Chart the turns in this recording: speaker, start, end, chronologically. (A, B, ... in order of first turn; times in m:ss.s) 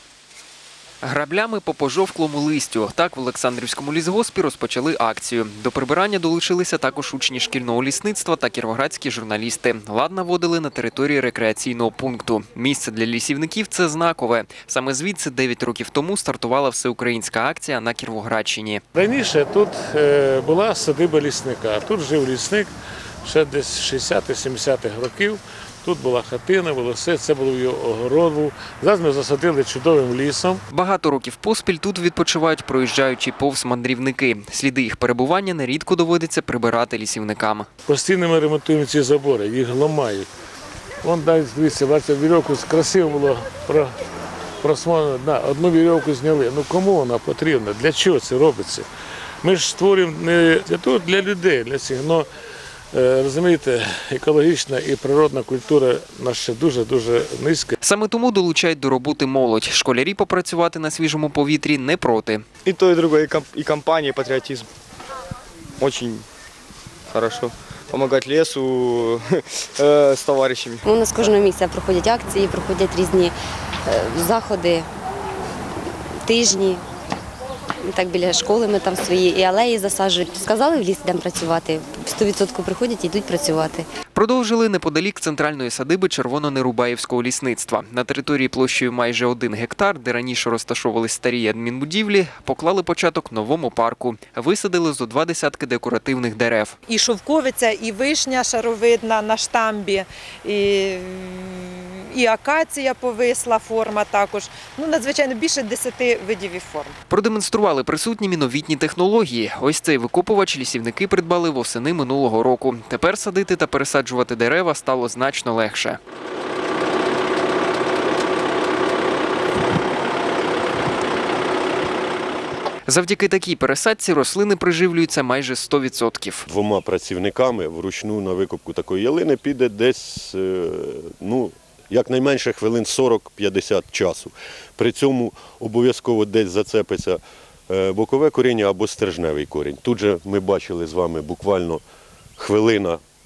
0:01.0-0:18.8 A
0:18.9-0:22.7 B
0:23.2-0:30.6 B
0:30.7-0:37.7 A
0:37.8-0:40.3 B
0:41.0-0:43.9 B
0:44.6-0:48.9 B
0:49.4-0:52.3 B
0:52.9-0:57.7 B
0:57.8-1:02.4 A
1:02.6-1:04.7 C
1:05.8-1:06.2 C
1:07.1-1:11.3 C
1:10.8-1:14.9 D
1:16.2-1:16.8 D
1:17.8-1:23.9 D
1:24.1-1:36.8 A
1:36.9-1:46.9 E
1:47.1-1:56.0 A
2:02.9-2:06.4 A
2:06.5-2:21.8 F
2:22.4-2:23.0 F